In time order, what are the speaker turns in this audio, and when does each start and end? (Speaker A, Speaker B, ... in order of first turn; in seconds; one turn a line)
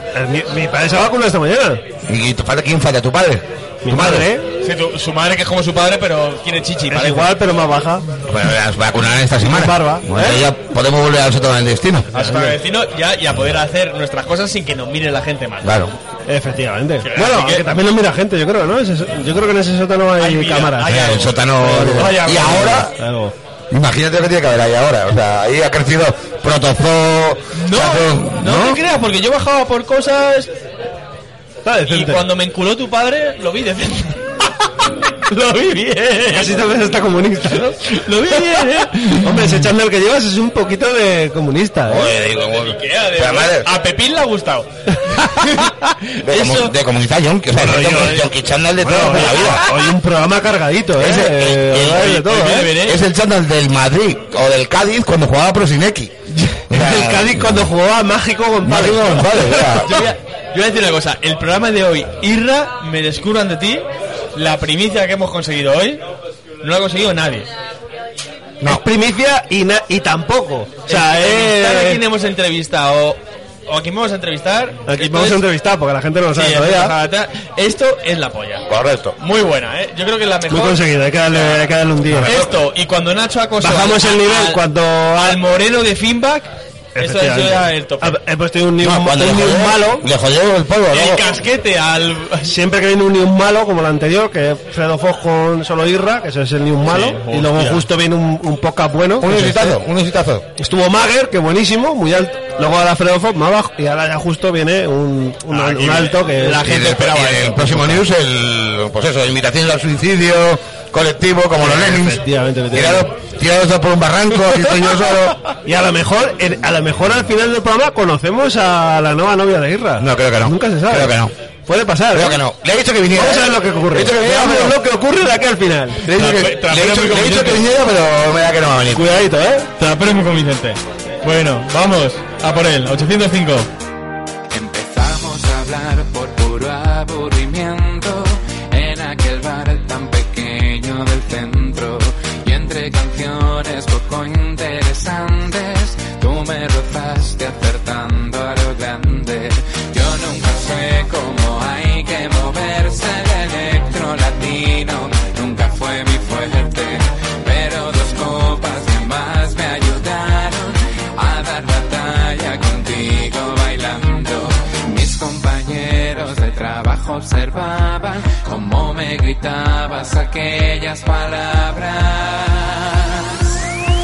Speaker A: 0.1-1.8
Speaker B: 2.1-4.3
Speaker A: 3.8-4.5
Speaker C: 4.6-7.4
Speaker A: 6.9-8.0
Speaker B: 8.2-12.1
Speaker A: 9.4-10.4
Speaker A: 12.1-12.6
Speaker C: 12.1-15.8
Speaker B: 15.6-15.9
Speaker A: 16.3-21.0
Speaker C: 17.0-17.8
Speaker C: 20.2-22.9
Speaker B: 20.8-22.9
Speaker A: 21.6-23.3
Speaker B: 23.7-28.8
Speaker C: 27.6-30.5
Speaker A: 31.6-32.2
Speaker C: 31.9-36.7
Speaker A: 36.3-42.1
Speaker C: 37.8-39.5
Speaker B: 41.9-43.7
Speaker C: 42.2-46.7
Speaker B: 46.2-49.7
Speaker A: 47.5-48.3
Speaker A: 48.8-52.7
Speaker C: 49.0-49.9
Speaker B: 51.0-57.7
Speaker C: 51.8-53.0
Speaker C: 56.4-56.6
Speaker A: 56.7-59.4
Speaker B: 58.6-60.0
Speaker C: 59.6-66.0
Speaker C: 66.6-67.5
Speaker A: 68.6-72.0
Speaker C: 70.9-75.5
Speaker A: 74.9-77.0
Speaker C: 76.3-78.7
Speaker B: 78.7-79.2
Speaker C: 79.2-84.6
Speaker A: 80.5-82.4
Speaker A: 83.6-85.4
Speaker C: 85.2-88.2
Speaker A: 87.0-90.1
Speaker B: 88.8-91.3
Speaker C: 90.9-92.5
Speaker A: 92.4-99.8
Speaker C: 96.8-97.9
Speaker B: 99.2-100.5
Speaker A: 100.6-106.7
Speaker C: 105.5-108.0
Speaker B: 106.6-115.4
Speaker A: 111.6-113.1
Speaker A: 115.7-122.4
Speaker B: 120.0-121.3
Speaker B: 122.1-124.8
Speaker A: 123.1-126.0
Speaker B: 126.0-129.1
Speaker C: 126.1-127.6
Speaker A: 128.9-129.7
Speaker C: 129.8-133.7
Speaker D: 134.5-173.6